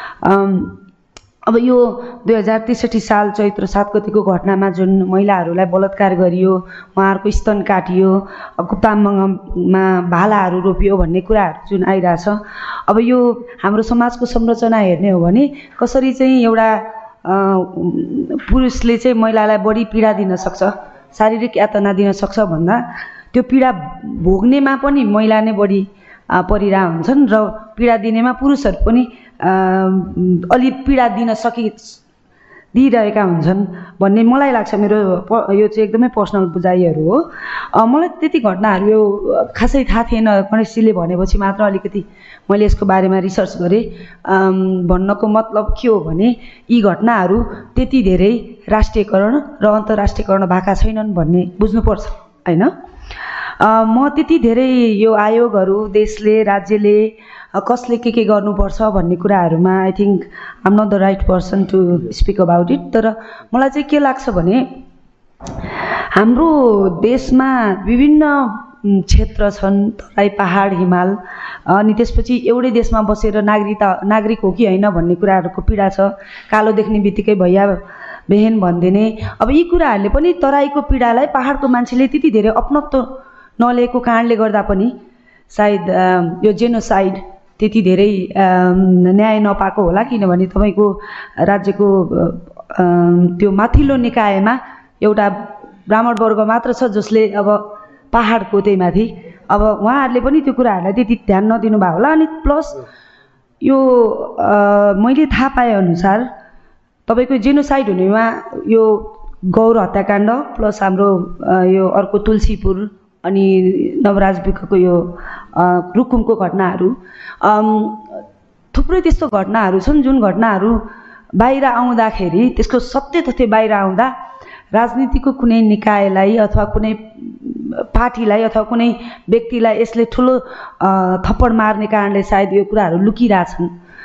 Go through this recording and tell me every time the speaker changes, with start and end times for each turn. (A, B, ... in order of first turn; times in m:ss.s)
0:00.2-0:00.8 A
0:01.4-0:32.0 A
0:32.7-0:52.7 A
0:53.6-1:04.7 A
1:06.1-1:24.9 A
1:25.5-1:42.8 A
1:43.6-1:46.3 A
1:47.1-1:58.2 A
1:58.7-2:00.8 A
2:01.4-2:04.1 A
2:04.7-2:13.7 A